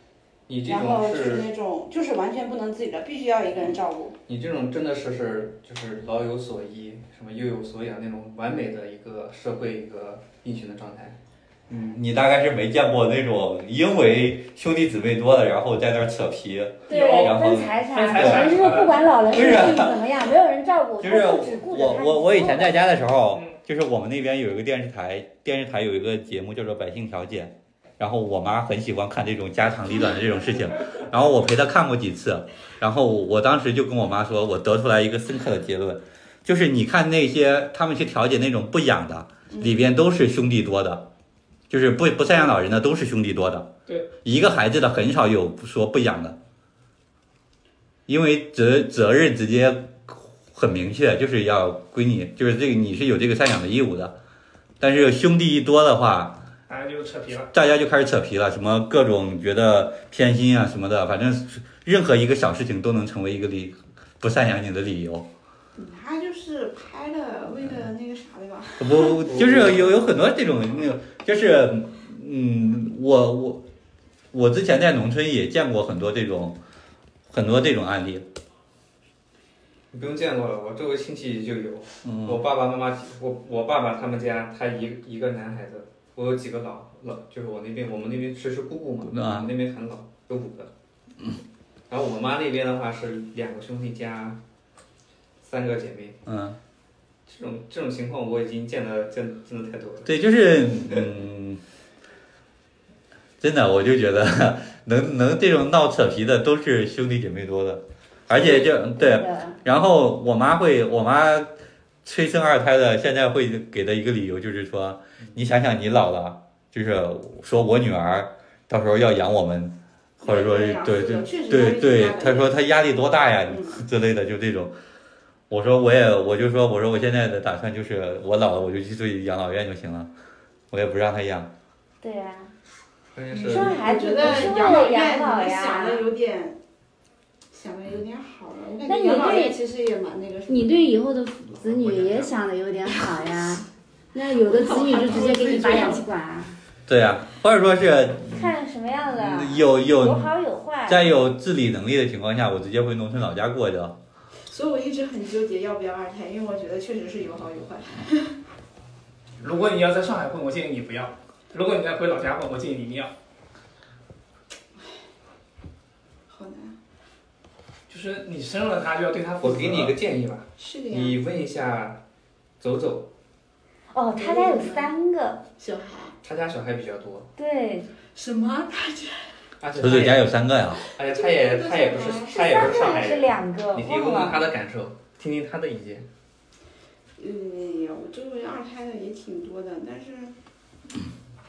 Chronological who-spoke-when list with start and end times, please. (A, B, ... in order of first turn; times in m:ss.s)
0:00.5-0:01.5 A
0:00.6-0:04.2 B
0:04.3-0:11.2 A
0:11.7-0:18.8 C
0:16.9-0:22.8 D
0:16.9-0:19.1 E
0:19.3-0:20.2 C
0:21.0-0:41.0 C
0:41.7-0:43.7 C
0:44.2-0:46.4 C
0:48.1-0:54.1 C
0:54.8-0:56.4 C
0:56.7-0:57.5 E
0:57.5-1:05.3 C
1:05.8-1:09.2 B
1:08.8-1:13.6 C
1:09.2-1:10.0 A
1:14.3-1:16.6 C
1:17.3-1:18.2 C
1:19.9-1:30.7 A
1:22.0-1:22.4 C
1:29.1-1:29.5 C
1:31.9-1:34.4 A
1:35.4-1:36.2 A
1:36.3-1:36.6 C
1:37.3-1:40.1 A
1:40.0-1:41.6 C
1:43.4-1:51.5 C
1:48.3-1:49.6 D
1:52.0-2:04.7 C
2:00.2-2:02.5 B
2:03.5-2:03.8 B
2:05.5-2:10.1 C
2:10.7-2:11.5 C
2:12.0-2:12.5 D
2:13.1-2:14.5 A
2:13.4-2:16.6 B
2:13.4-2:16.0 D
2:17.5-2:20.8 B
2:18.9-2:19.6 D
2:20.5-2:26.6 D
2:21.5-2:22.4 A
2:24.4-2:26.0 B
2:26.9-2:28.5 C
2:28.3-2:31.1 D
2:29.1-2:30.3 C
2:30.9-2:34.0 C
2:34.5-2:38.4 B
2:39.4-2:43.1 E
2:46.3-2:46.8 B
2:47.9-2:49.9 E
2:49.4-2:52.0 A
2:50.6-2:51.2 B
2:52.6-2:53.1 A
2:53.9-2:55.4 D
2:54.2-2:54.9 B
2:55.6-2:56.2 B
2:56.2-2:57.3 A
2:57.4-2:57.9 D
2:58.1-2:59.3 B
2:59.6-3:00.3 A
2:59.7-3:00.8 C
3:00.8-3:03.1 B
3:00.9-3:06.1 A
3:02.3-3:04.4 D
3:07.2-3:10.4 B